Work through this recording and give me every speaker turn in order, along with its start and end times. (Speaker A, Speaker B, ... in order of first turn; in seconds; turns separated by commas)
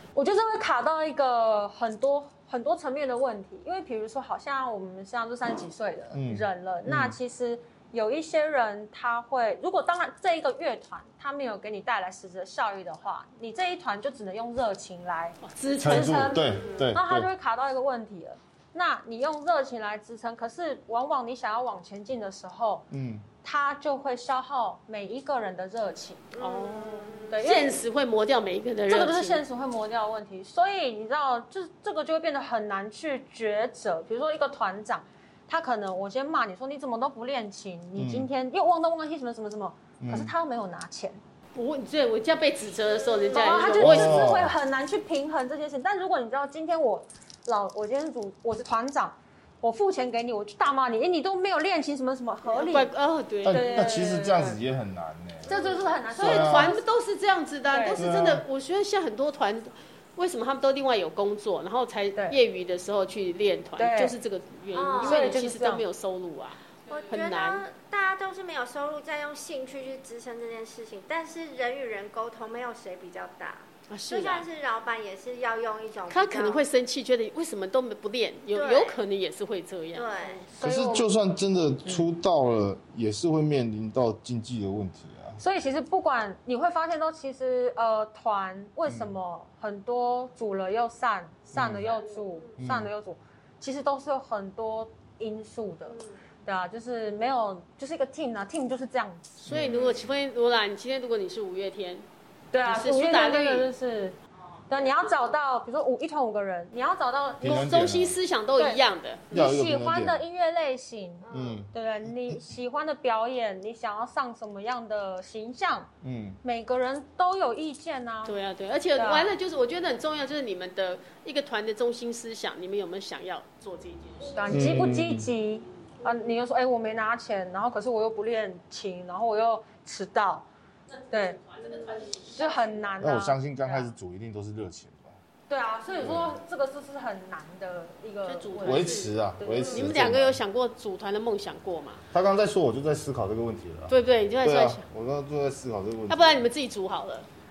Speaker A: 0.1-22.9, Speaker B: 6.1-7.2, Speaker C: 15.4-16.8, Speaker B: 15.8-17.3, Speaker B: 22.9-23.2, Speaker A: 23.4-26.3, Speaker D: 26.3-27.3, Speaker C: 26.4-29.4, Speaker A: 27.3-27.8, Speaker A: 28.9-41.2, Speaker B: 38.0-38.3, Speaker B: 40.0-40.3, Speaker C: 41.5-44.2, Speaker A: 43.3-52.9, Speaker B: 43.7-44.5, Speaker C: 52.5-54.1, Speaker B: 53.4-55.5, Speaker A: 53.5-54.6, Speaker D: 55.5-55.9, Speaker A: 55.5-56.8, Speaker B: 56.1-56.8, Speaker C: 56.2-67.6, Speaker A: 57.7-58.0, Speaker B: 57.9-58.4, Speaker A: 63.8-64.2, Speaker D: 64.7-65.3, Speaker A: 65.0-65.8, Speaker D: 66.9-76.6, Speaker C: 73.9-74.5, Speaker C: 76.1-80.4, Speaker D: 78.5-79.0, Speaker D: 79.9-80.4, Speaker A: 80.5-81.1, Speaker B: 80.6-85.4, Speaker A: 85.4-99.4, Speaker B: 88.9-89.1, Speaker B: 91.5-91.9, Speaker B: 92.6-92.9, Speaker D: 95.9-96.2, Speaker B: 99.4-99.9, Speaker C: 99.5-102.0, Speaker A: 102.5-104.2, Speaker C: 102.6-103.7, Speaker A: 104.7-107.7, Speaker B: 107.4-108.2, Speaker C: 107.4-109.3, Speaker A: 108.6-115.9, Speaker B: 109.3-110.2, Speaker D: 111.2-111.6, Speaker B: 111.3-111.7, Speaker B: 116.0-116.4, Speaker A: 116.4-118.4, Speaker C: 118.2-124.9, Speaker A: 119.0-119.3, Speaker A: 124.3-130.5, Speaker B: 124.5-125.3, Speaker C: 130.9-132.9, Speaker A: 131.1-131.4, Speaker A: 132.3-133.9, Speaker B: 133.0-135.2, Speaker A: 135.5-139.8, Speaker B: 135.9-136.4, Speaker C: 138.2-139.1, Speaker B: 138.6-140.4, Speaker D: 139.5-139.8, Speaker C: 139.7-142.0, Speaker B: 142.1-146.4, Speaker C: 143.9-144.8, Speaker C: 146.1-147.3